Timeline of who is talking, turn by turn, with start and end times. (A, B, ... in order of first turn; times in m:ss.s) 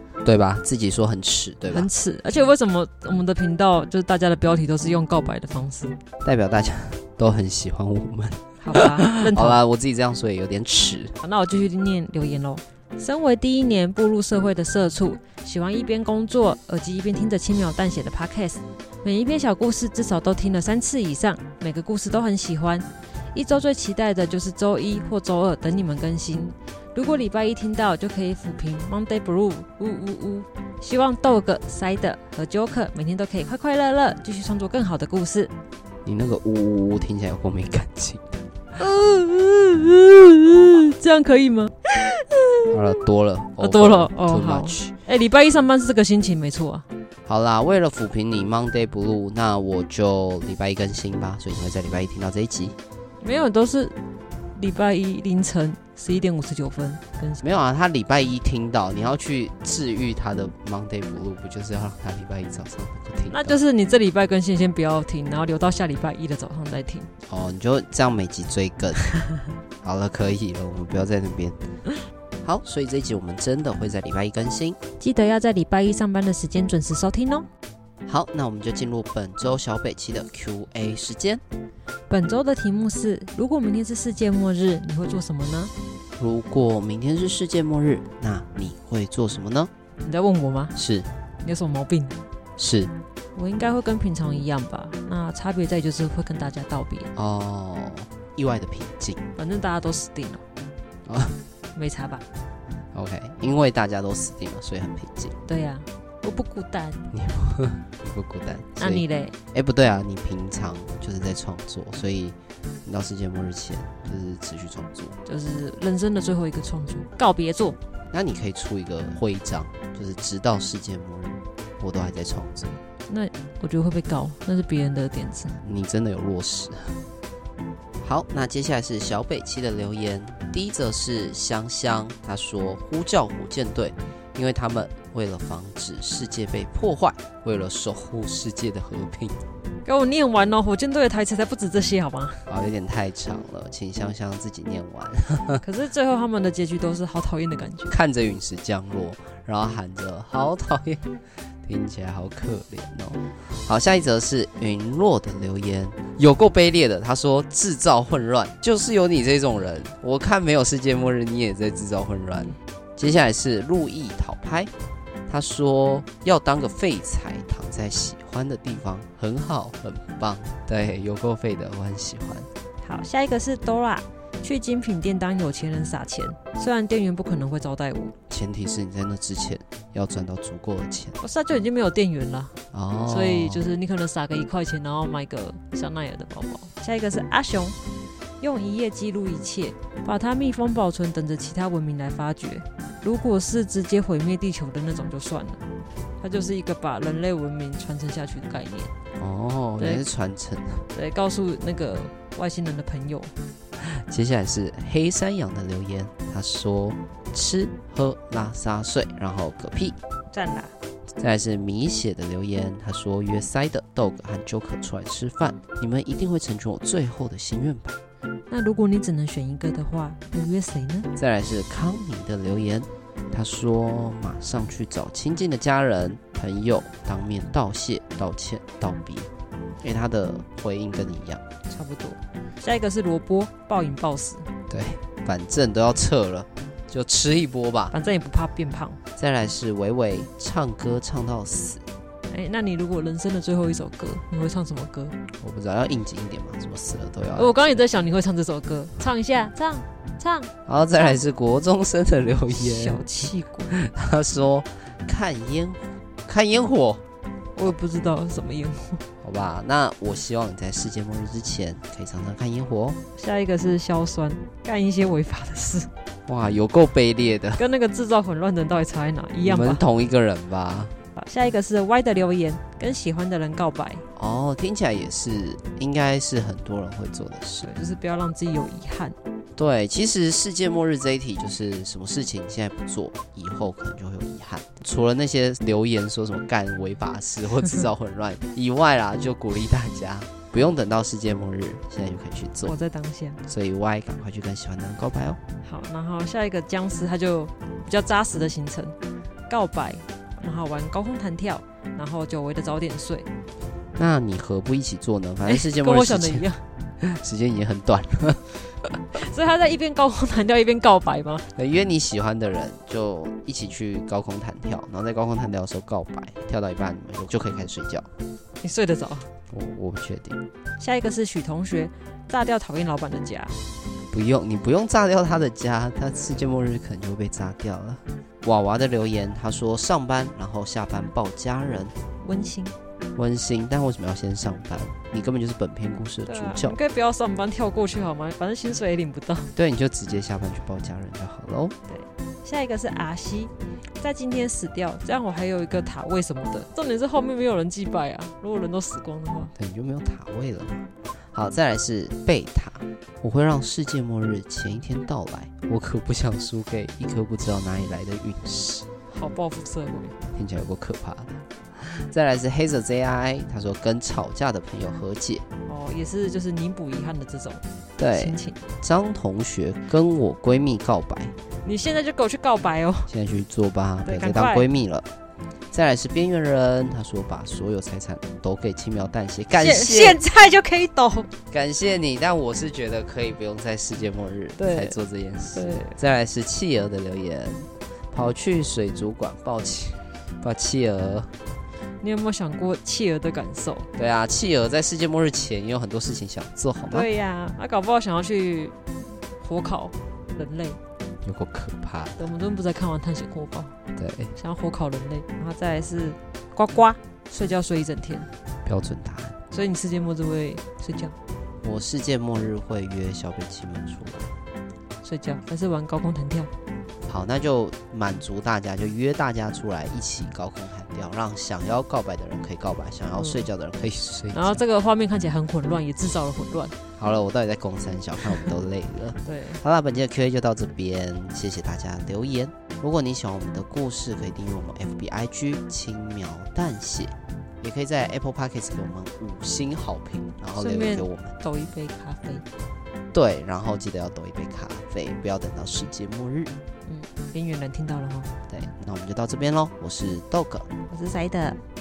0:00.2-0:01.9 A
0:01.7-0:06.0 B
0:06.2-0:11.2 A
0:08.6-0:09.6 B
0:11.2-0:35.5 B
0:36.0-0:38.4 A
0:38.8-0:42.7 B
0:42.7-0:44.9 A
0:43.6-0:46.8 B
0:47.2-0:52.8 A
0:53.2-0:54.0 B
0:54.5-0:57.4 B
0:57.4-1:03.6 A
1:03.3-1:07.1 B
1:07.3-1:09.0 A
1:09.8-1:11.6 A
1:12.4-1:14.8 A
1:15.0-1:17.5 B
1:18.0-1:21.4 A
1:22.1-1:25.7 B
1:26.2-1:29.7 A
1:30.0-1:30.7 B
1:30.7-1:31.1 A
1:31.4-1:32.2 B
1:32.6-1:32.9 A
1:33.3-1:37.1 B
1:37.2-1:39.2 A
1:39.4-1:40.4 B
1:41.0-1:41.4 A
1:41.7-1:42.2 B
1:42.9-1:45.4 A
1:45.4-1:47.0 B
1:47.1-1:55.2 A
1:48.8-1:49.3 B
1:55.2-1:57.8 B
1:58.1-2:02.8 A
2:03.1-2:05.6 B
2:05.6-2:07.0 A
2:08.0-2:19.4 A
2:19.8-2:22.4 B
2:22.5-2:25.6 A
2:25.6-2:27.9 B
2:27.9-2:31.1 A
2:31.6-2:44.7 A
2:45.3-2:52.5 A
2:52.8-2:58.1 B
2:58.3-3:01.2 A
3:01.2-3:02.5 B
3:02.7-3:03.7 A
3:03.1-3:07.8 B
3:08.4-3:15.6 B
3:16.2-3:18.9 B
3:19.2-3:20.8 A
3:20.9-3:23.3 B
3:23.8-3:30.0 A
3:30.3-3:30.7 B
3:31.2-3:38.0 A
3:38.5-3:41.1 B
3:41.1-3:49.3 A
3:49.8-3:51.4 A
3:51.7-3:54.5 B
3:54.7-3:57.9 A
3:57.9-3:59.0 B
3:59.2-4:01.8 A
4:02.3-4:05.2 B
4:05.4-4:07.7 A
4:07.3-4:10.5 B
4:10.6-4:13.0 A
4:12.5-4:13.7 B
4:13.7-4:17.0 A
4:17.5-4:19.0 B
4:19.2-4:23.0 A
4:23.2-4:25.9 B
4:26.3-4:27.6 A
4:27.6-4:29.8 B
4:29.4-4:30.9 A
4:31.2-4:34.0 B
4:34.2-4:37.7 A
4:37.6-4:39.2 B
4:39.6-4:52.8 A
4:52.6-4:53.4 B
4:53.4-4:55.4 A
4:55.6-4:59.0 B
4:59.5-5:03.3 B
5:04.0-5:06.5 A
5:05.4-5:06.6 B
5:07.0-5:09.0 A
5:09.1-5:11.5 B
5:11.6-5:18.1 A
5:18.6-5:19.3 B
5:19.5-5:20.4 A
5:20.8-5:23.6 B
5:24.1-5:32.0 A
5:26.1-5:26.4 B
5:32.2-5:32.8 B
5:33.1-5:36.8 A
5:36.2-5:39.5 B
5:39.5-5:41.7 A
5:41.9-5:49.5 B
5:49.5-5:58.9 A
5:59.1-6:00.2 B
6:00.3-6:05.4 A
6:05.6-6:08.6 B
6:08.0-6:11.3 A
6:11.6-6:13.1 B
6:13.1-6:15.1 A
6:14.0-6:14.6 B
6:15.7-6:20.2 A
6:19.5-6:21.3 B
6:21.5-6:31.3 A
6:24.6-6:24.9 B
6:25.5-6:26.0 B
6:32.0-6:33.9 B
6:33.9-6:37.1 A
6:36.9-6:40.8 B
6:41.2-6:42.2 A
6:42.2-6:43.7 B
6:44.0-6:44.3 A
6:44.4-6:48.3 B
6:48.6-6:49.4 A
6:49.5-6:51.1 B
6:51.6-6:54.3 A
6:55.0-6:56.5 B
6:57.0-7:04.6 A
7:03.1-7:03.4 B
7:04.3-7:06.8 B
7:07.0-7:21.4 A
7:09.2-7:09.6 B
7:20.5-7:22.4 B
7:23.1-7:26.5 A
7:26.8-7:28.3 B
7:28.5-7:30.7 A
7:30.9-7:31.6 B